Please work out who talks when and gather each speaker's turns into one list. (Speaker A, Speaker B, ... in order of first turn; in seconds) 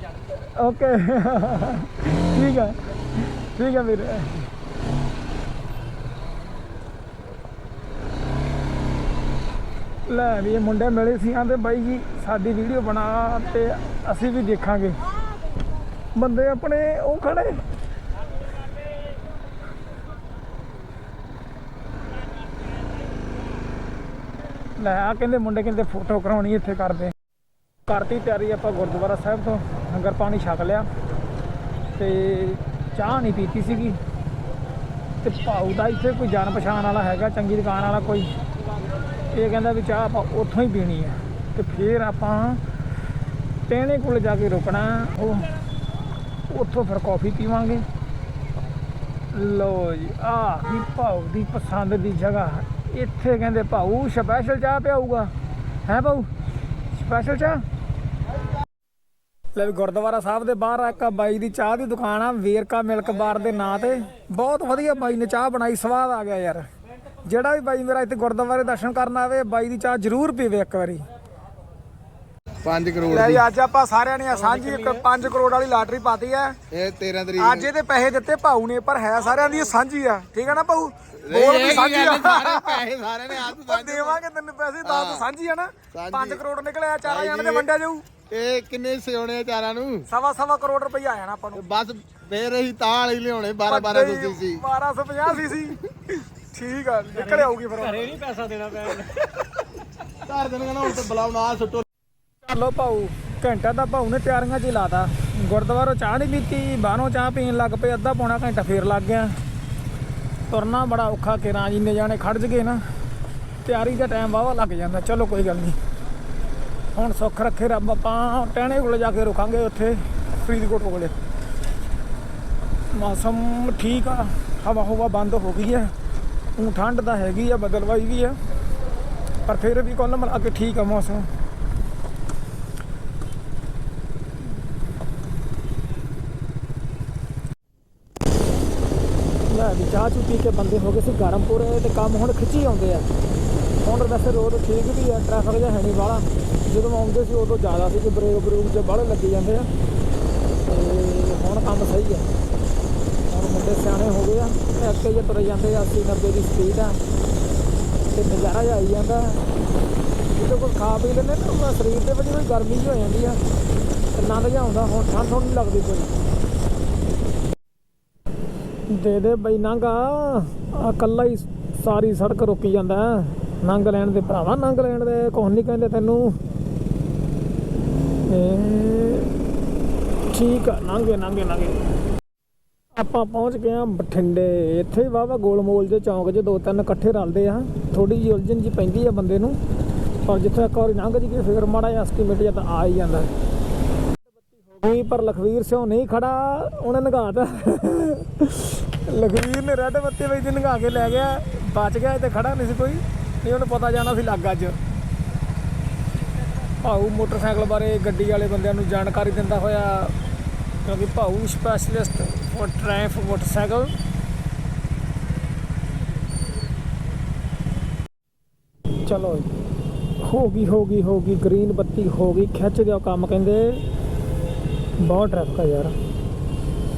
Speaker A: 0.4-4.5, 10.1-15.0, 16.2-17.6, 24.8-27.1, 27.9-30.9, 31.9-34.0, 35.2-38.3, 39.3-42.6, 43.7-45.5, 46.5-47.9, 49.3-55.3, 55.9-56.3, 56.9-57.6, 59.5-66.7, 67.2-71.0, 73.1-76.6, 77.4-88.1, 90.1-91.7, 93.7-98.2, 102.4-109.3, 110.5-112.8, 113.6-115.8, 116.9-121.2, 122.9-125.9, 126.6-128.4, 129.5-131.3, 139.5-143.1, 143.8-149.7, 150.6-152.3, 153.3-157.0, 158.1-159.5, 160.3-163.4, 164.1-166.1, 168.9-176.4, 178.2-179.3, 180.3-181.8, 182.9-189.6, 190.2-193.3, 194.4-204.8, 206.7-210.2, 210.8-213.9, 219.1-219.5, 220.2-223.8, 225.0-226.0
Speaker B: 72.6-73.5, 76.7-77.7, 81.2-84.2, 84.8-85.3, 85.9-86.4, 87.0-87.7, 88.3-90.1, 91.5-94.6, 100.2-101.9
Speaker C: 74.5-75.0, 97.2-99.3